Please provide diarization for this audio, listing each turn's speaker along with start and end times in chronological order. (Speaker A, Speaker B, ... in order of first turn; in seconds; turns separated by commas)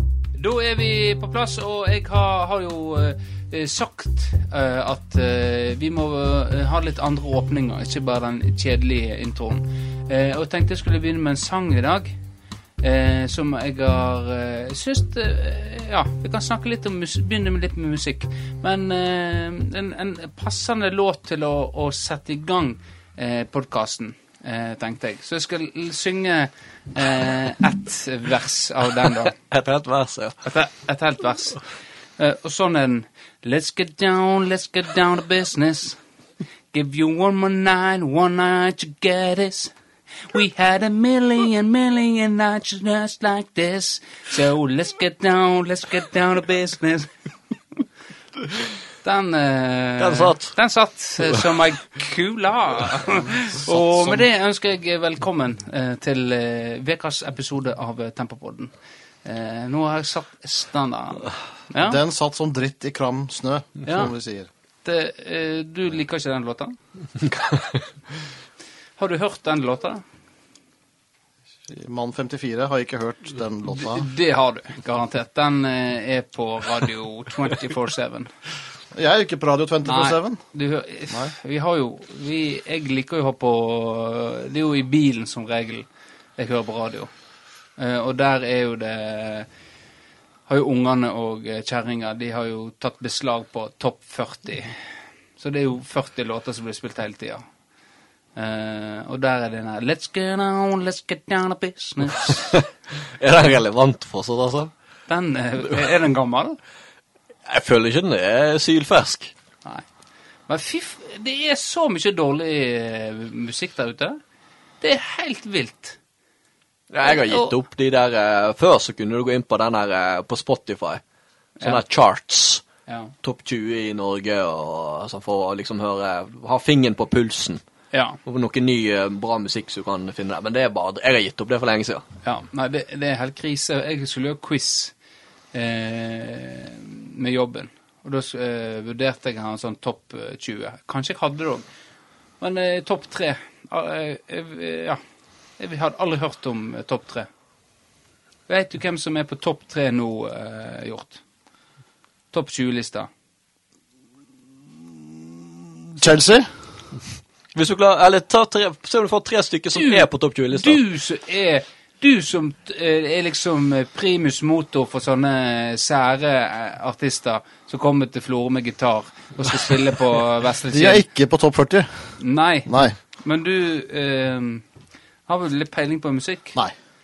Speaker A: 0.3-12.1, Speaker A: 12.8-29.4, Speaker B: 29.4-30.4, Speaker A: 30.4-31.6, Speaker A: 32.2-36.0, Speaker A: 36.7-39.7, Speaker A: 40.3-47.1, Speaker A: 49.0-58.7, Speaker B: 50.0-50.6, Speaker B: 53.7-54.2, Speaker A: 59.2-62.0, Speaker C: 61.8-64.5, Speaker A: 63.9-64.1, Speaker A: 64.8-67.4, Speaker A: 69.0-70.0, Speaker C: 71.7-74.1, Speaker A: 73.7-78.3, Speaker C: 78.9-80.4, Speaker A: 79.8-87.1, Speaker A: 87.8-89.5, Speaker A: 90.5-94.8, Speaker A: 95.4-97.5, Speaker A: 98.4-102.6, Speaker B: 102.5-104.7, Speaker A: 105.1-106.6, Speaker B: 107.5-109.3, Speaker A: 110.5-114.2, Speaker A: 114.8-116.0, Speaker B: 116.9-121.0, Speaker A: 117.0-117.5, Speaker B: 121.6-122.6, Speaker A: 122.9-123.1, Speaker B: 123.2-127.6, Speaker A: 127.9-128.2, Speaker B: 128.2-132.1, Speaker A: 132.2-134.9, Speaker A: 135.5-141.7, Speaker A: 142.4-145.0, Speaker A: 145.6-147.3, Speaker A: 148.5-151.2, Speaker A: 152.3-153.1, Speaker C: 155.4-156.5, Speaker B: 157.6-160.8, Speaker A: 159.7-171.1, Speaker C: 170.7-172.9, Speaker A: 172.2-174.6, Speaker A: 175.3-176.6